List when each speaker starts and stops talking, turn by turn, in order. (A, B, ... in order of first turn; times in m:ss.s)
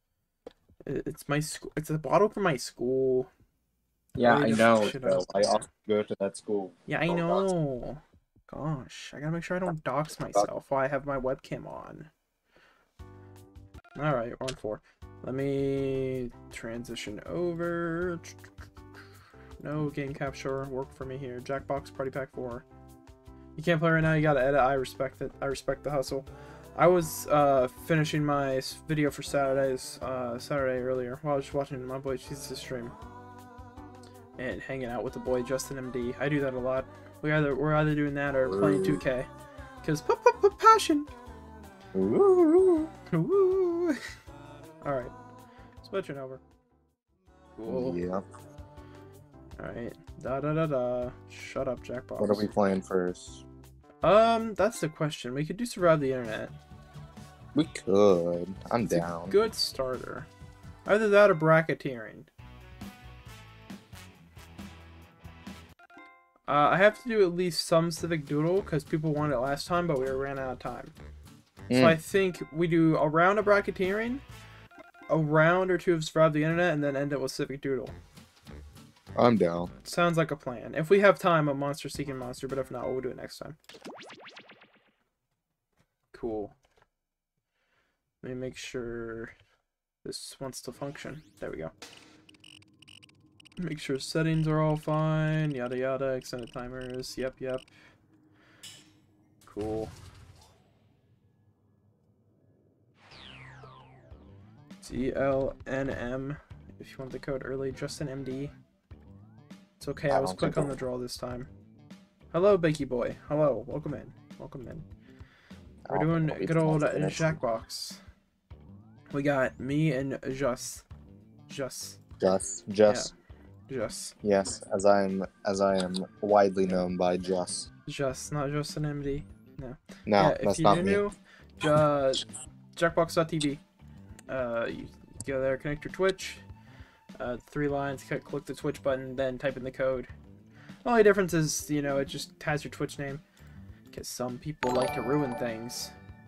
0:00.8-0:03.3 A
0:04.2-0:07.4 B
0:04.2-0:05.6 A
0:06.9-0:12.1 A
0:14.0-0:18.4 A
0:19.6-0:22.6 A
0:23.6-0:33.0 A
0:34.4-0:39.3 A
0:38.4-0:39.0 B
0:39.8-0:41.1 A
0:41.9-0:42.9 B
0:43.1-0:44.0 A
0:44.8-0:45.1 A
0:45.8-0:46.4 A
0:47.6-0:48.0 A
0:47.7-0:48.2 B
0:49.6-0:52.5 A
0:52.2-0:53.4 B
0:54.0-0:56.5 A
0:57.5-0:59.4 B
0:58.9-1:00.3 A
1:00.9-1:02.3 A
1:06.5-1:10.9 A
1:11.7-1:12.0 B
1:11.8-1:14.2 A
1:15.1-1:18.0 A
1:19.2-1:19.7 B
1:19.8-1:23.6 A
1:26.1-1:26.5 A
1:28.2-1:29.3 A
1:30.0-1:31.7 A
1:33.6-1:37.7 A
1:39.5-1:39.9 A
1:44.8-1:48.5 A
1:49.8-1:51.5 A
1:50.1-1:50.7 B
1:52.3-1:54.9 A
1:55.9-1:57.4 B
1:55.9-1:58.0 A
1:59.1-2:00.8 A
2:01.5-2:02.0 A
2:02.2-2:03.1 B
2:02.9-2:03.1 A
2:03.7-2:04.2 A
2:04.2-2:07.7 B
2:07.9-2:12.2 A
2:10.1-2:11.0 B
2:12.8-2:13.6 A
2:14.3-2:16.4 A
2:17.2-2:20.1 A
2:20.8-2:23.2 A
2:23.9-2:25.9 A